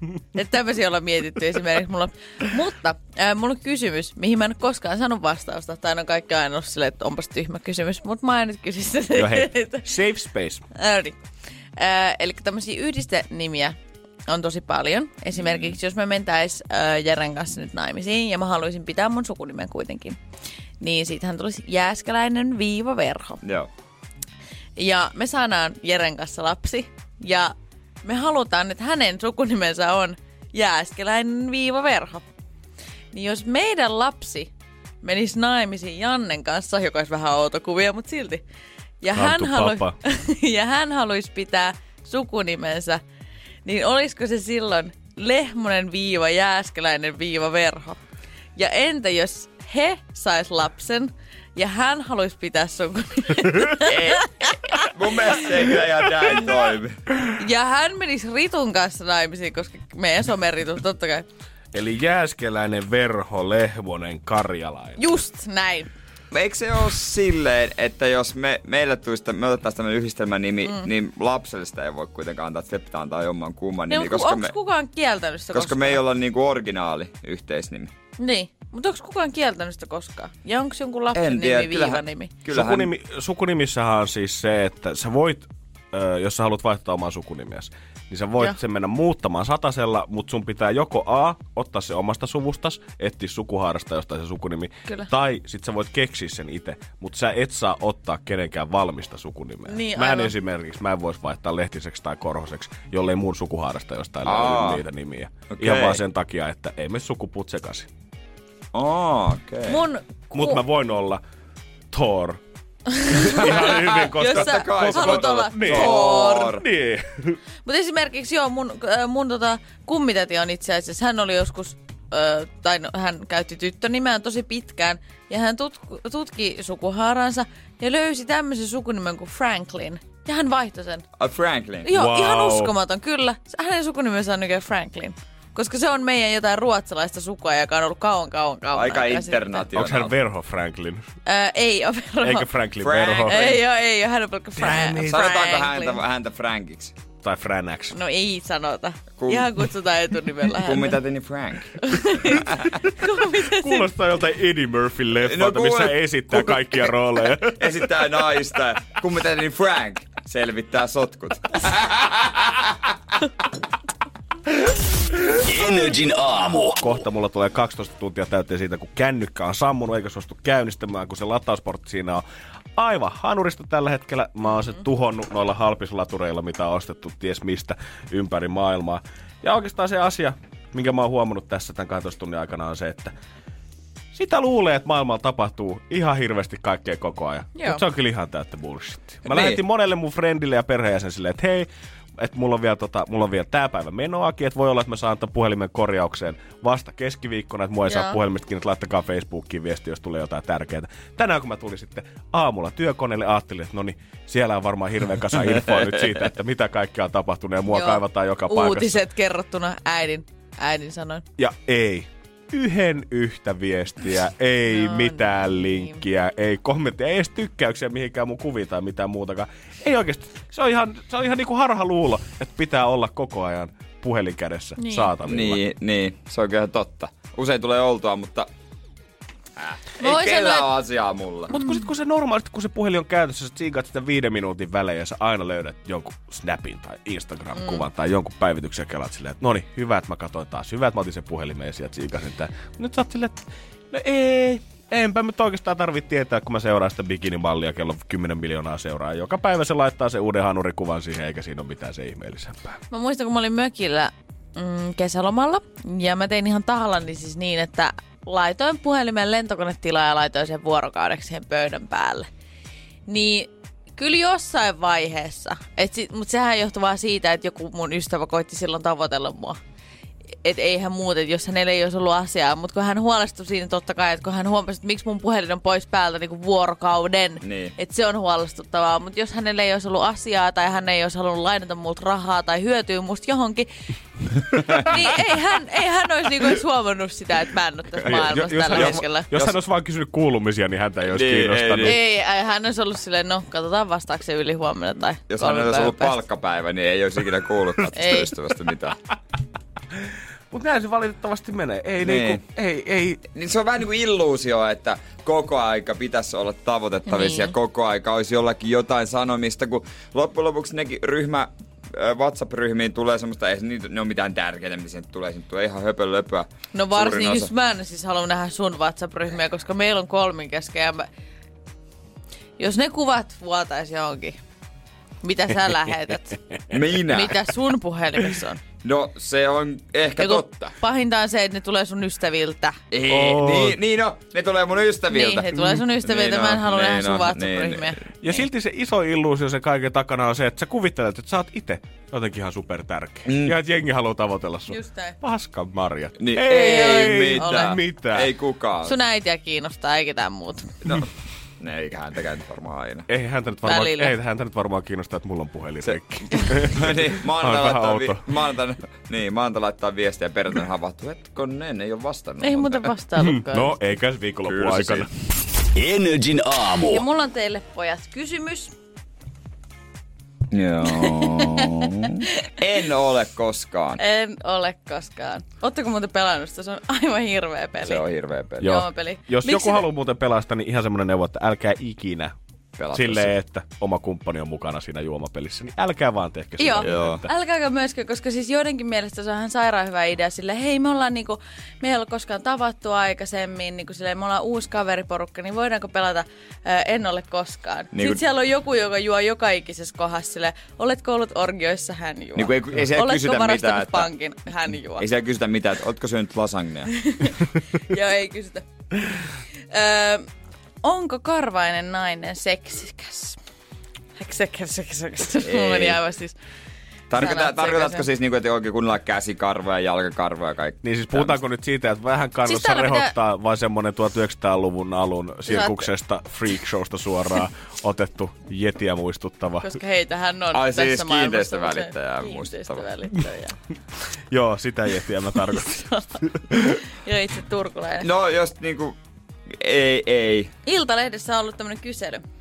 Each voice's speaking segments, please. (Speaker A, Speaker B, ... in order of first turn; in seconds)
Speaker A: 0.3-9.9, 10.8-11.2, 11.8-13.8, 14.3-20.2, 20.8-23.4, 24.8-32.2, 33.1-34.5, 35.0-38.4, 39.0-43.0, 43.6-48.0, 48.6-54.9, 57.4-61.3, 65.0-65.9, 73.9-76.0, 78.2-82.3, 99.7-100.3, 109.7-110.6, 113.1-116.5, 117.7-131.0, 131.8-139.7, 141.3-142.5, 143.2-146.0, 147.9-151.0, 151.8-153.9, 187.6-187.8, 197.9-198.2, 207.7-211.2, 214.7-216.0, 224.8-225.1, 230.0-230.7, 231.5-231.9, 237.6-237.9, 252.9-262.3, 263.1-269.6, 270.4-283.7, 284.8-289.3, 291.9-296.2, 297.9-298.3, 307.1-307.5, 316.7-321.1, 322.6-324.4, 325.2-326.4, 327.1-328.6, 330.2-332.8, 335.1-338.1, 344.7-345.2, 346.5-347.8, 348.8-350.8, 353.6-354.2, 362.4-363.8, 366.8-368.7, 370.9-371.9, 374.0-378.0, 378.6-379.9, 386.6-405.1, 407.0-408.6, 409.7-410.3, 410.8-413.4, 414.2-416.4, 417.2-418.1, 422.4-423.1, 425.5-425.9, 429.6-433.6, 435.4-438.1, 440.6-442.2
Speaker B: 9.1-10.6, 39.1-40.0, 61.7-65.0, 82.5-107.9, 110.3-111.2, 111.9-112.4, 113.0-117.4, 131.9-132.8, 139.8-141.1, 142.2-143.4, 144.6-145.2, 147.2-148.0, 153.5-158.3, 166.8-172.2, 172.8-183.1, 184.1-209.0, 211.4-225.6, 231.5-252.8, 288.0-292.0, 300.5-303.2, 333.1-333.8, 335.5-335.8, 338.2-348.3, 353.1-358.2, 363.2-365.1, 378.6-382.3, 382.9-387.3, 420.8-429.7, 434.3-436.8
Speaker C: 15.3-15.8, 23.4-23.7, 53.8-57.0, 66.3-74.5, 75.5-77.9, 81.1-82.9, 104.2-104.8, 105.5-106.0, 108.7-109.8, 113.4-116.7, 131.2-131.9, 138.7-140.2, 142.8-143.6, 145.1-146.9, 149.2-149.5, 150.6-152.7, 155.2-162.9, 189.2-189.6, 225.3-228.5, 229.6-231.5, 277.4-277.7, 288.7-289.6, 291.1-292.0, 295.3-299.0, 302.0-302.4, 303.4-317.5, 326.7-327.5, 328.8-330.7, 332.9-338.0, 343.3-343.6, 346.2-349.0, 351.6-353.1, 355.8-362.9, 364.4-365.1, 370.5-374.0, 377.8-378.8, 382.8-383.4, 386.7-387.3, 397.9-398.2, 402.4-404.1, 405.0-406.9, 415.4-416.0, 417.1-421.4, 430.5-432.9, 438.0-439.0, 439.6-440.5
Speaker D: 165.4-166.8, 365.8-367.0